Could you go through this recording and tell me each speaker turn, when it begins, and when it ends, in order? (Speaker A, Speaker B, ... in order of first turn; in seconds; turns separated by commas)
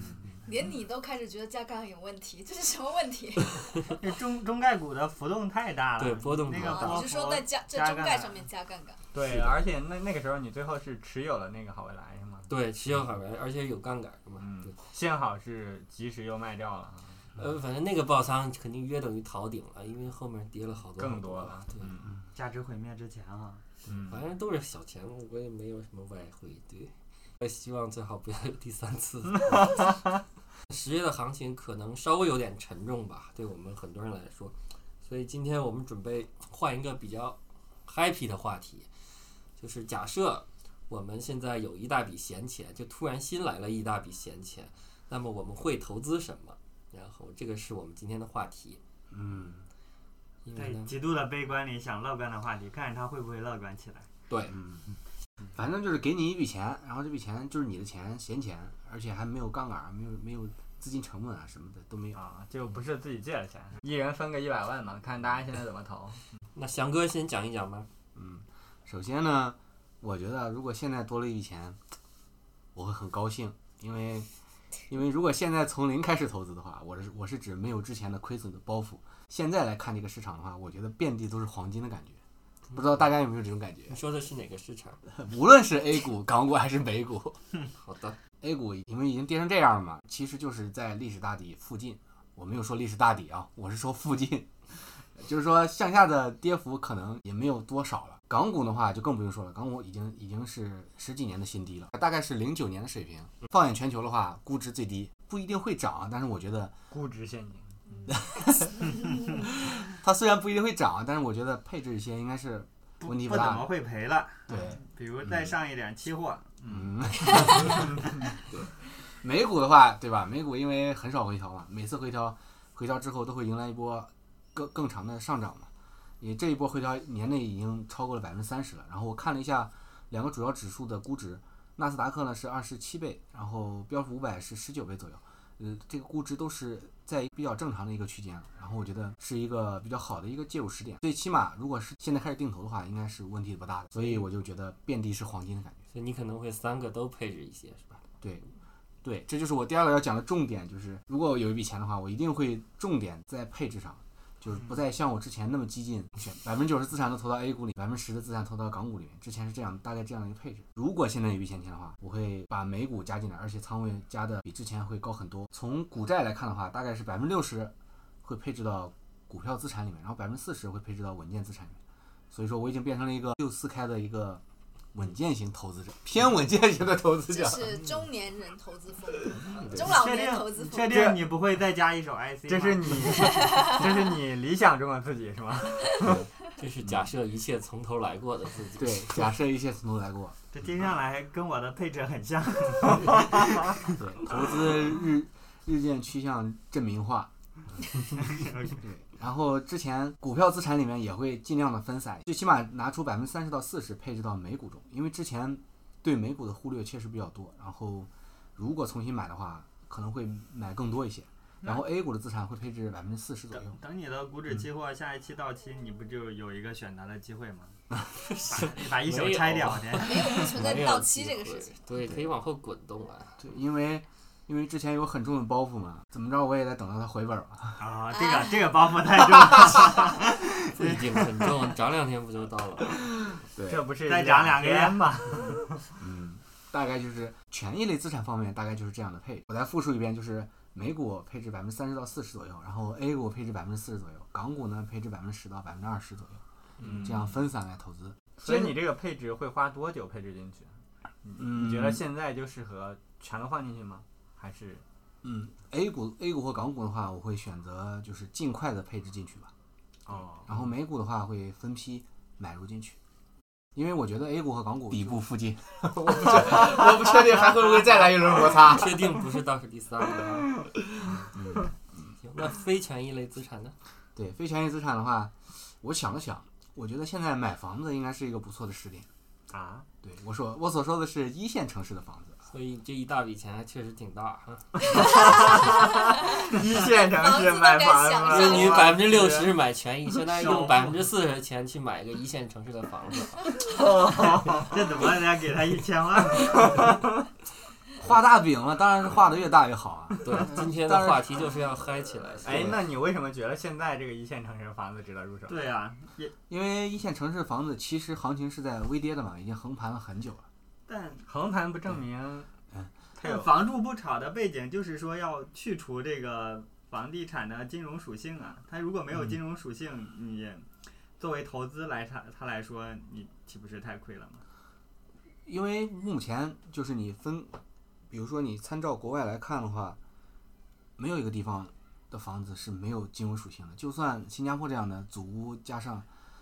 Speaker A: 0.4-3.9, Speaker B: 4.0-8.5, Speaker C: 6.0-7.1, Speaker A: 6.6-9.0, Speaker D: 9.1-12.5, Speaker C: 9.2-9.6, Speaker C: 12.5-14.8, Speaker D: 14.4-17.3, Speaker C: 17.4-21.9, Speaker D: 21.0-22.1, Speaker B: 22.3-23.6, Speaker D: 23.9-24.2, Speaker C: 24.1-29.9, Speaker C: 30.7-38.9, Speaker C: 39.6-48.8, Speaker E: 49.1-49.6, Speaker C: 50.5-51.0, Speaker B: 50.5-54.1, Speaker E: 54.3-54.9, Speaker E: 55.5-62.2, Speaker D: 62.1-66.2, Speaker C: 66.5-67.9, Speaker E: 68.2-71.8, Speaker E: 72.7-74.3, Speaker E: 74.9-82.2, Speaker E: 82.7-84.0, Speaker C: 83.9-85.0, Speaker E: 85.1-87.4, Speaker C: 87.8-88.2, Speaker E: 88.4-106.8, Speaker D: 106.9-107.8, Speaker E: 108.1-113.7, Speaker B: 113.0-117.8, Speaker E: 114.5-114.8, Speaker E: 116.7-145.8, Speaker C: 145.9-148.0, Speaker E: 149.0-171.8, Speaker E: 172.3-177.8, Speaker A: 177.3-181.0, Speaker E: 179.3-179.9, Speaker B: 179.7-183.7, Speaker D: 180.9-181.2, Speaker D: 182.5-186.2, Speaker A: 183.4-183.7, Speaker C: 186.6-189.3, Speaker E: 188.8-190.4, Speaker B: 190.5-193.9, Speaker E: 193.9-197.3, Speaker E: 197.9-198.2, Speaker B: 198.4-198.8, Speaker E: 198.8-213.8, Speaker B: 213.5-217.8, Speaker C: 218.2-223.4, Speaker B: 218.4-220.4, Speaker A: 220.0-221.8, Speaker E: 223.4-227.9, Speaker B: 227.8-231.2, Speaker A: 228.1-228.5, Speaker C: 230.7-233.1, Speaker E: 233.5-233.9, Speaker D: 233.7-235.8, Speaker B: 234.0-235.5, Speaker E: 236.0-248.8, Speaker D: 246.8-247.4, Speaker D: 248.4-250.7, Speaker D: 251.2-254.8, Speaker E: 251.4-252.0, Speaker E: 255.2-259.5, Speaker D: 260.1-260.5, Speaker E: 260.5-263.0, Speaker E: 263.8-269.2, Speaker C: 268.4-270.6, Speaker E: 271.3-271.7, Speaker C: 272.2-273.8, Speaker E: 274.2-279.1, Speaker D: 279.5-279.9, Speaker E: 280.0-282.4, Speaker C: 282.5-284.9, Speaker D: 285.1-289.5, Speaker A: 285.1-285.5, Speaker A: 286.1-289.0, Speaker C: 288.3-293.5, Speaker B: 290.3-291.0, Speaker D: 293.7-294.7, Speaker B: 294.6-296.8, Speaker E: 298.0-301.3, Speaker C: 300.2-302.8, Speaker D: 302.4-305.6, Speaker E: 302.5-302.8, Speaker B: 305.5-306.3, Speaker E: 306.5-310.5, Speaker B: 310.9-311.3, Speaker D: 311.3-312.5, Speaker D: 313.2-313.5, Speaker B: 313.2-324.4, Speaker E: 325.5-327.6, Speaker E: 328.1-330.0, Speaker E: 331.0-336.1